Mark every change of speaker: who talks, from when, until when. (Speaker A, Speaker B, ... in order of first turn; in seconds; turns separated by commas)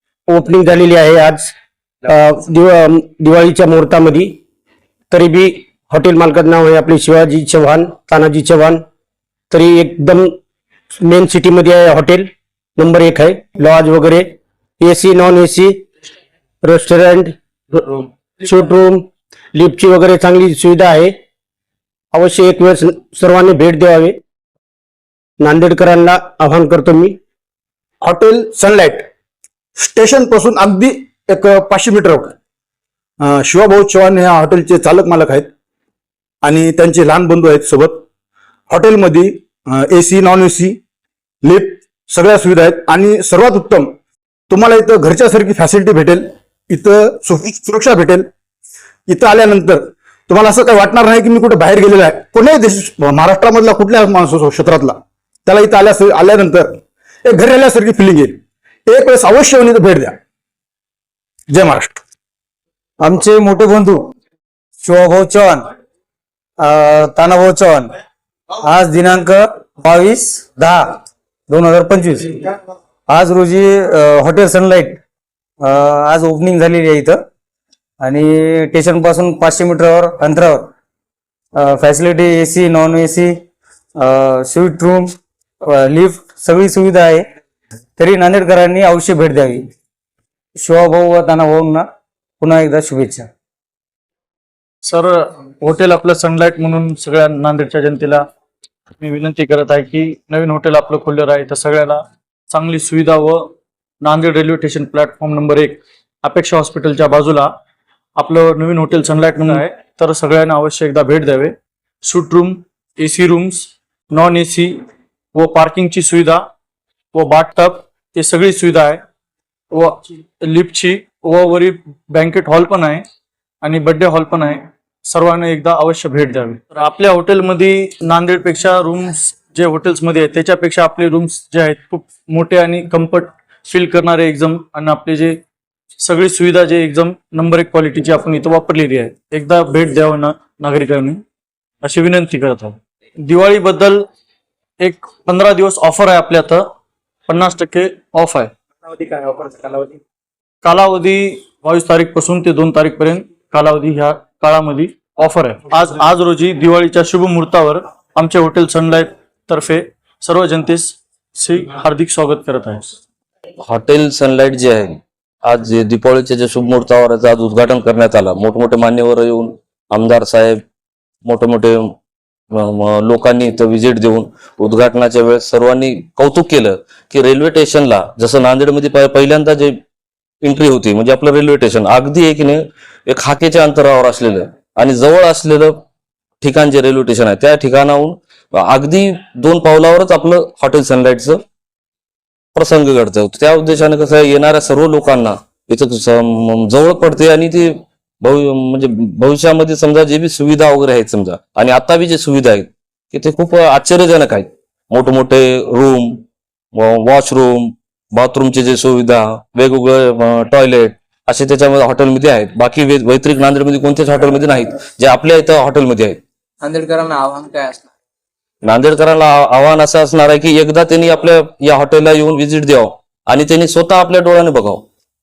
Speaker A: 0.3-1.5, Speaker A: 2.0-4.4, Speaker A: 5.1-8.8, Speaker A: 9.5-10.3, Speaker A: 11.0-15.8, Speaker A: 16.6-21.1, Speaker A: 22.1-24.2, Speaker A: 25.4-27.2, Speaker B: 28.0-29.1, Speaker B: 29.8-32.3, Speaker B: 33.2-35.5, Speaker B: 36.4-38.0, Speaker B: 38.7-40.8, Speaker B: 41.4-43.9, Speaker B: 44.5-48.2, Speaker B: 49.1-60.1, Speaker B: 61.5-62.0, Speaker C: 63.0-64.0, Speaker C: 64.8-65.6, Speaker C: 66.6-67.9, Speaker C: 68.6-70.8, Speaker C: 71.5-72.4, Speaker C: 73.1-75.0, Speaker C: 75.6-77.2, Speaker C: 78.0-80.7, Speaker C: 81.5-83.3, Speaker C: 84.0-85.1, Speaker C: 85.7-87.2, Speaker C: 88.0-89.6, Speaker C: 90.6-91.8, Speaker C: 92.4-93.3, Speaker D: 94.9-98.2, Speaker D: 99.0-107.5, Speaker D: 108.2-116.4, Speaker D: 117.1-119.0, Speaker D: 119.7-123.0, Speaker D: 123.6-135.4, Speaker D: 136.0-141.2, Speaker D: 141.8-144.1, Speaker D: 144.8-146.7, Speaker D: 147.3-148.5, Speaker E: 149.1-149.9, Speaker D: 150.6-163.0, Speaker F: 163.6-170.6, Speaker F: 171.2-171.9, Speaker F: 172.5-179.8, Speaker F: 180.4-185.8, Speaker F: 186.4-191.4, Speaker F: 192.6-206.2, Speaker F: 206.7-216.2, Speaker E: 216.6-217.8, Speaker F: 218.6-224.8